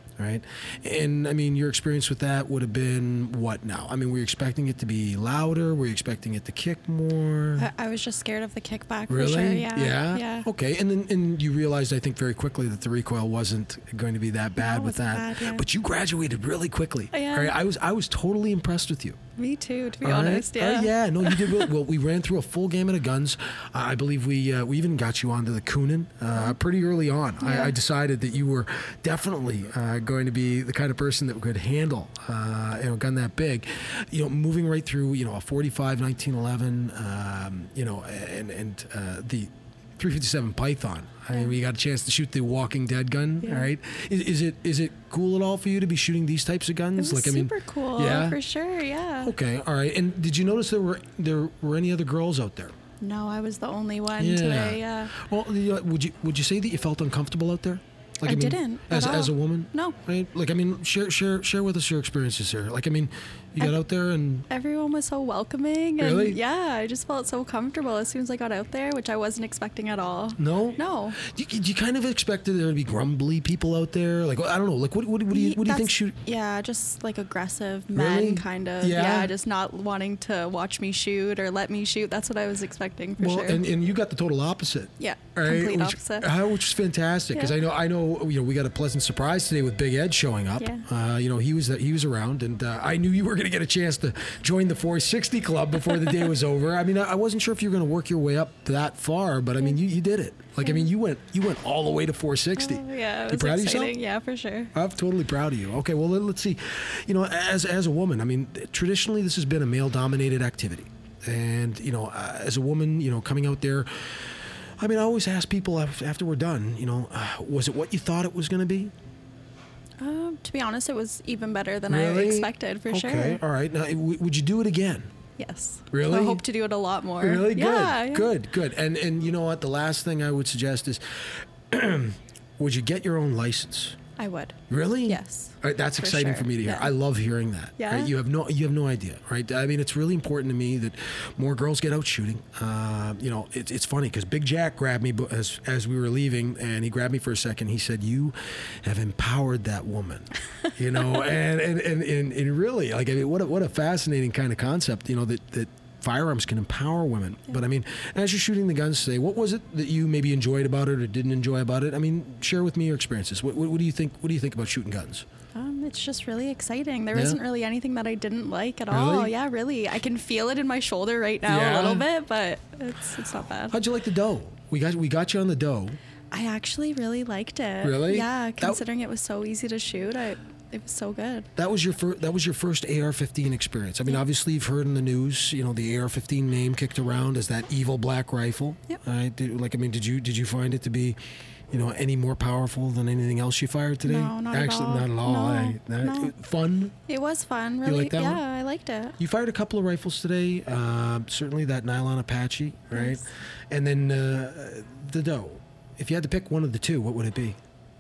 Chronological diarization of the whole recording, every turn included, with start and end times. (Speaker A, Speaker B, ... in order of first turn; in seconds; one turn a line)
Speaker A: 0.2-7.7
Speaker B: 7.6-10.5
Speaker A: 9.1-19.2
Speaker B: 14.6-15.7
Speaker B: 17.1-17.5
Speaker B: 19.4-21.7
Speaker A: 20.0-48.4
Speaker B: 27.4-27.8
Speaker B: 43.4-43.7
Speaker B: 47.0-49.3
Speaker A: 49.2-52.7
Speaker B: 53.0-55.1
Speaker A: 54.2-64.5
Speaker B: 58.2-60.0
Speaker B: 64.5-71.2
Speaker A: 66.0-66.4
Speaker A: 70.4-76.2
Speaker B: 75.3-83.6
Speaker A: 78.0-79.3
Speaker A: 83.2-104.0
Speaker B: 85.0-86.3
Speaker B: 90.6-90.8
Speaker B: 100.6-100.9
Speaker B: 102.6-104.7
Speaker A: 104.7-113.9
Speaker A: 114.8-118.9
Speaker B: 120.0-123.4
Speaker A: 121.9-125.1
Speaker B: 125.4-128.3
Speaker A: 125.9-126.4
Speaker A: 127.2-134.0
Speaker B: 134.2-136.9
Speaker A: 134.7-165.2
Speaker B: 137.8-138.1
Speaker B: 165.6-173.8
Speaker A: 168.9-169.3
Speaker A: 171.4-172.1
Speaker A: 173.7-176.0
Speaker B: 176.3-181.5
Speaker A: 177.8-178.8
Speaker A: 181.6-191.2
Speaker A: 191.7-197.0
Speaker B: 194.1-196.3
Speaker B: 197.1-199.2
Speaker A: 197.8-198.4
Speaker A: 199.2-207.6
Speaker B: 202.9-203.2